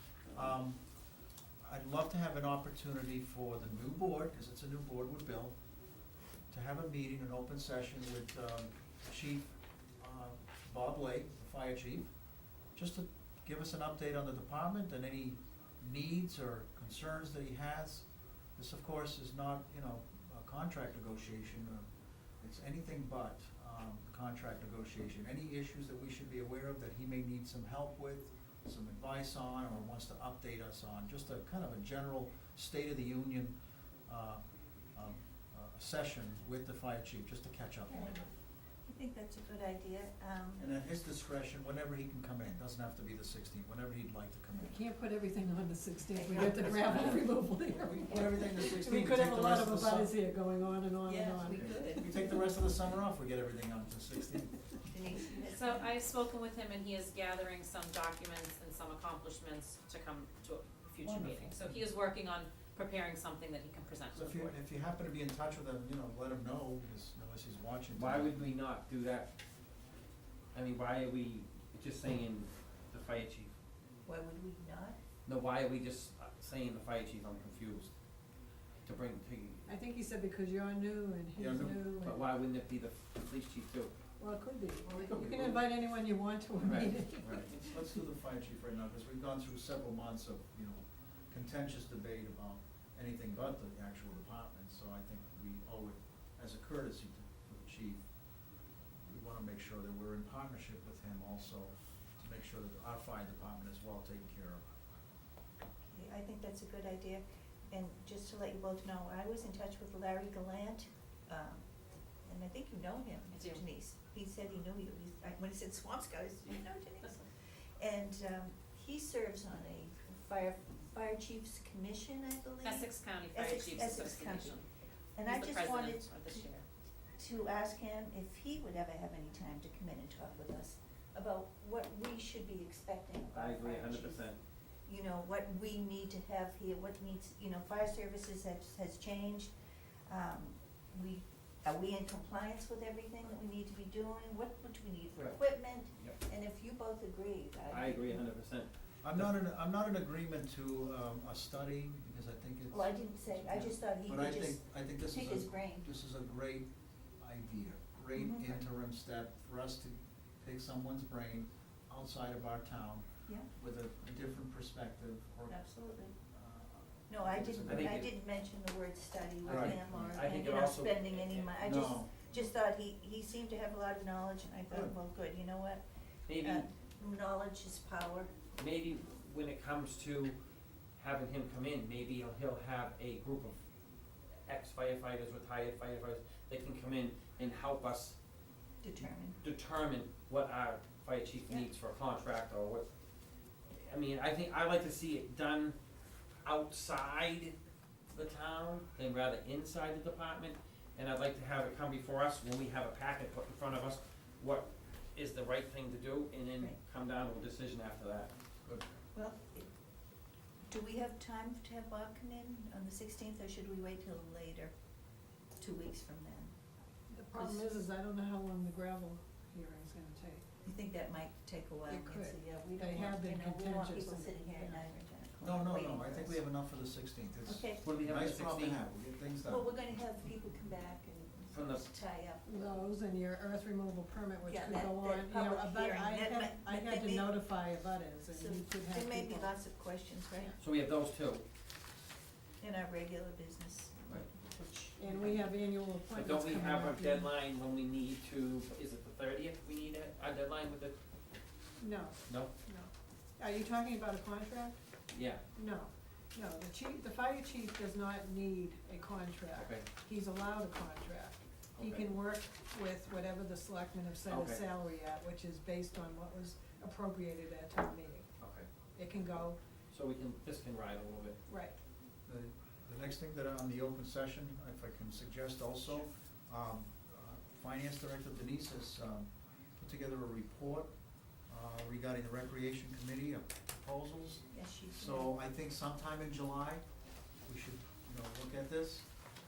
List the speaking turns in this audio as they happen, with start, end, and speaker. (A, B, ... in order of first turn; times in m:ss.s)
0:00.3-0:00.8 A
0:01.6-0:05.5 A
0:06.5-0:09.5 A
0:10.0-0:12.1 A
0:12.8-0:18.0 A
0:18.6-0:21.9 A
0:22.4-0:33.5 A
0:34.1-0:34.4 A
0:35.0-0:38.3 A
0:38.9-0:40.7 B
0:40.6-0:44.8 A
0:44.6-0:51.9 C
0:46.1-0:47.1 B
0:46.6-0:50.1 A
0:51.0-0:52.3 B
0:51.5-0:54.6 A
0:54.9-0:55.9 B
0:55.5-1:04.5 D
1:01.0-1:01.8 A
1:04.1-1:08.5 A
1:07.9-1:09.3 E
1:10.5-1:13.5 E
1:14.0-1:15.0 B
1:15.2-1:17.9 E
1:18.8-1:19.7 E
1:19.7-1:22.2 C
1:21.4-1:21.8 A
1:22.0-1:23.9 E
1:24.2-1:28.0 C
1:24.9-1:25.6 E
1:26.6-1:27.6 E
1:27.2-1:30.8 A
1:31.3-1:38.0 A
1:39.0-1:44.6 A
1:45.9-1:51.6 B
1:52.3-1:57.2 B
1:53.4-1:53.6 D
1:57.8-2:04.6 B
2:02.6-2:04.6 D
2:05.2-2:06.4 B
2:05.2-2:06.6 D
2:07.2-2:14.3 B
2:13.3-2:14.4 E
2:14.9-2:19.5 B
2:20.1-2:28.2 B
2:27.7-2:28.7 E
2:29.0-2:36.7 A
2:32.7-2:35.9 B
2:37.2-2:45.6 A
2:38.1-2:38.6 B
2:45.5-2:46.1 B
2:46.3-2:48.0 A
2:47.1-2:55.8 B
2:47.7-2:48.1 E
2:49.4-2:50.1 A
2:49.4-2:51.8 E
2:51.6-2:52.3 A
2:56.3-2:56.6 E
2:56.3-2:58.3 B
2:58.6-3:00.4 E
3:01.0-3:03.6 E
3:04.5-3:08.2 E
3:08.8-3:09.4 B
3:09.4-3:12.9 E
3:13.8-3:15.8 E
3:16.4-3:17.5 E
3:18.1-3:28.8 E
3:29.1-3:29.7 B
3:30.7-3:34.7 B
3:35.6-3:36.5 B
3:37.1-3:40.4 C
3:37.3-3:37.7 B
3:40.6-3:46.4 B
3:41.9-3:44.8 C
3:45.4-3:49.7 A
3:47.4-3:47.8 B
3:47.8-3:48.8 E
3:49.4-3:52.5 B
3:51.5-3:51.8 E
3:52.4-3:59.5 C
3:54.4-3:57.3 B
3:58.3-4:00.5 B
4:00.6-4:01.4 E
4:02.6-4:05.4 B
4:05.0-4:07.3 C
4:06.1-4:10.9 E
4:11.8-4:14.8 C
4:15.1-4:15.4 E
4:15.6-4:28.3 C
4:19.5-4:19.8 E
4:21.8-4:22.0 E
4:24.3-4:24.6 E
4:28.4-4:28.7 E
4:29.0-4:29.6 C
4:29.9-4:31.4 E
4:31.5-4:31.7 C
4:32.3-4:39.3 A
4:39.8-4:40.9 A
4:41.5-4:44.4 A
4:44.5-4:45.3 B
4:44.9-4:46.8 A
4:47.4-4:49.0 A